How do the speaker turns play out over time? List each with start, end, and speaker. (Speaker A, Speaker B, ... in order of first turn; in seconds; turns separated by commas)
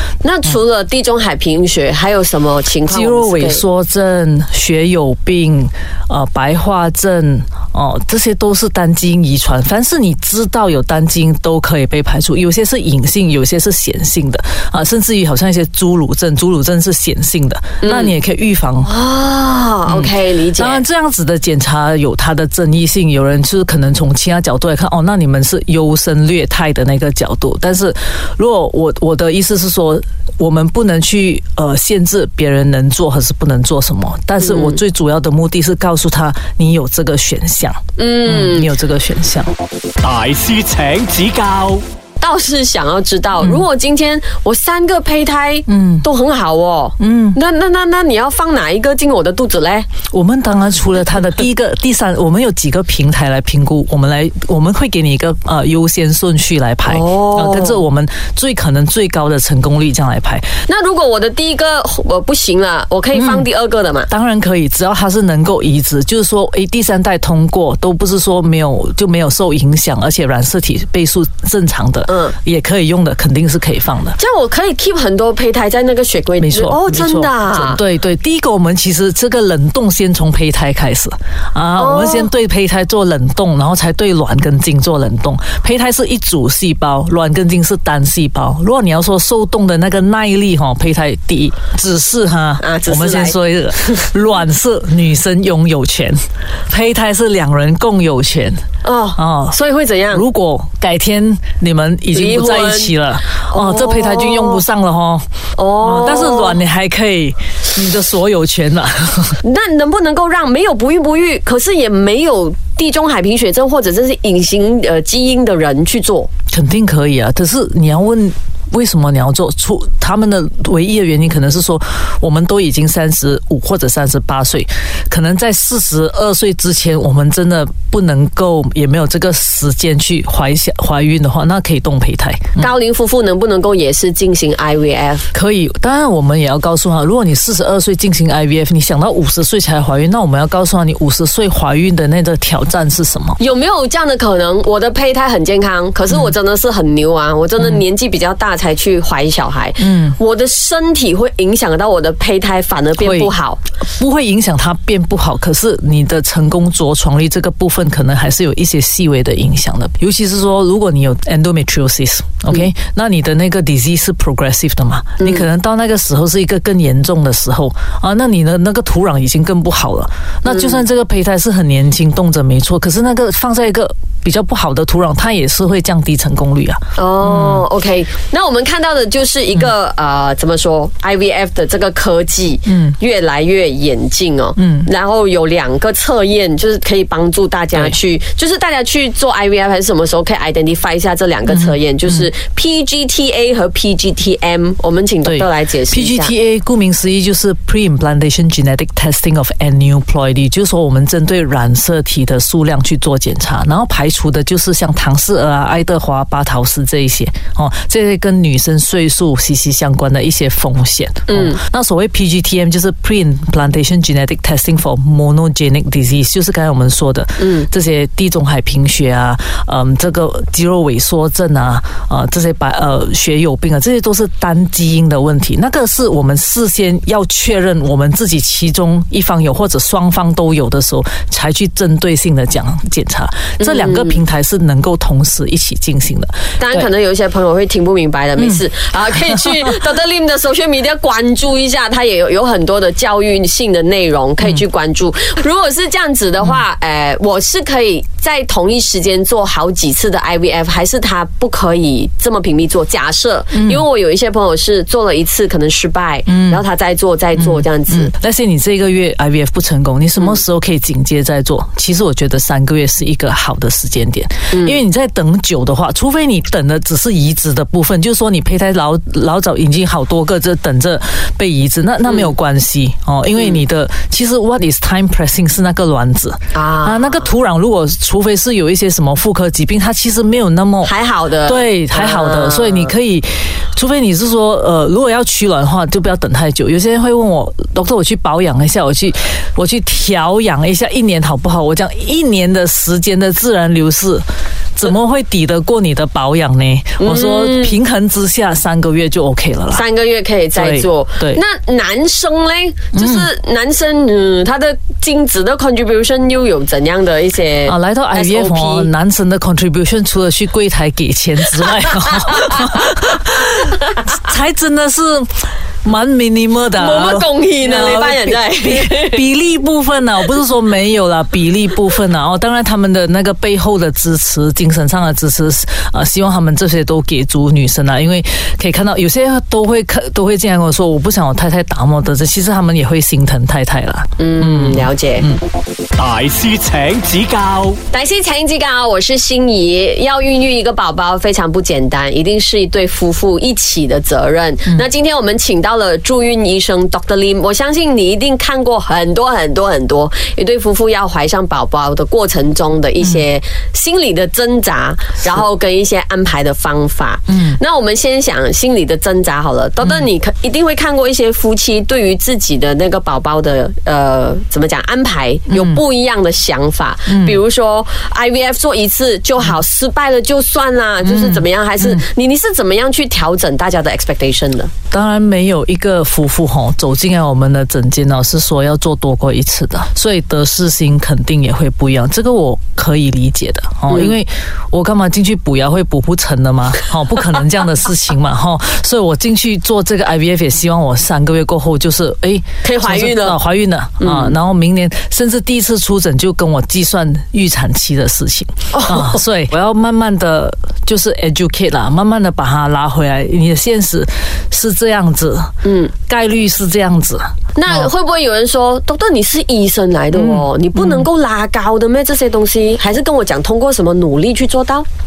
Speaker A: 0.2-3.6, Speaker B: 2.8-18.9, Speaker A: 17.8-18.1, Speaker A: 18.8-20.8, Speaker B: 19.9-39.5, Speaker A: 34.4-34.8, Speaker A: 38.0-38.7, Speaker C: 40.0-41.8, Speaker A: 42.2-49.9, Speaker B: 45.7-46.0, Speaker B: 47.0-47.4, Speaker B: 50.1-60.5, Speaker A: 56.9-57.8, Speaker A: 60.7-64.1, Speaker B: 63.1-63.4, Speaker B: 64.1-74.2, Speaker A: 72.1-72.3, Speaker A: 74.2-77.8, Speaker B: 76.4-98.6, Speaker A: 81.8-82.3, Speaker A: 92.6-94.1, Speaker A: 98.8-100.2, Speaker B: 99.2-99.5, Speaker B: 100.1-105.3, Speaker A: 102.1-102.9, Speaker A: 103.5-104.6, Speaker A: 105.5-106.6, Speaker B: 105.8-109.4, Speaker A: 109.4-116.3, Speaker B: 116.5-132.7, Speaker A: 132.6-135.3, Speaker B: 135.3-143.4, Speaker A: 143.4-153.6, Speaker B: 149.8-150.2, Speaker B: 153.0-153.3, Speaker B: 153.8-177.6, Speaker A: 165.2-165.4, Speaker A: 170.4-170.8, Speaker A: 176.9-196.3, Speaker B: 182.7-183.0, Speaker B: 184.6-184.9, Speaker B: 191.5-192.3, Speaker B: 195.2-236.9, Speaker A: 211.3-211.6, Speaker A: 217.4-217.7, Speaker A: 233.6-234.2, Speaker A: 236.6-258.1, Speaker B: 238.4-238.6, Speaker B: 239.3-239.6, Speaker B: 253.5-253.8, Speaker B: 256.3-256.6, Speaker B: 257.4-280.9, Speaker A: 264.5-264.8, Speaker A: 272.1-272.3, Speaker A: 273.4-273.6, Speaker A: 276.5-277.3, Speaker A: 280.8-282.9, Speaker B: 281.4-299.8, Speaker A: 297.0-297.8, Speaker A: 299.7-308.9, Speaker B: 300.6-301.4, Speaker B: 302.9-303.3, Speaker B: 307.6-335.4, Speaker A: 311.6-312.8, Speaker A: 316.8-319.2, Speaker A: 334.2-335.3, Speaker C: 335.9-337.8, Speaker A: 337.9-374.7, Speaker B: 357.3-357.6, Speaker B: 365.5-365.8, Speaker B: 367.1-367.4, Speaker B: 371.0-372.0, Speaker B: 374.9-405.5, Speaker A: 383.9-384.1, Speaker A: 392.6-393.4, Speaker A: 394.0-394.4, Speaker A: 398.7-399.1, Speaker A: 405.6-405.9, Speaker B: 406.1-407.9, Speaker A: 407.6-414.9, Speaker B: 410.1-411.1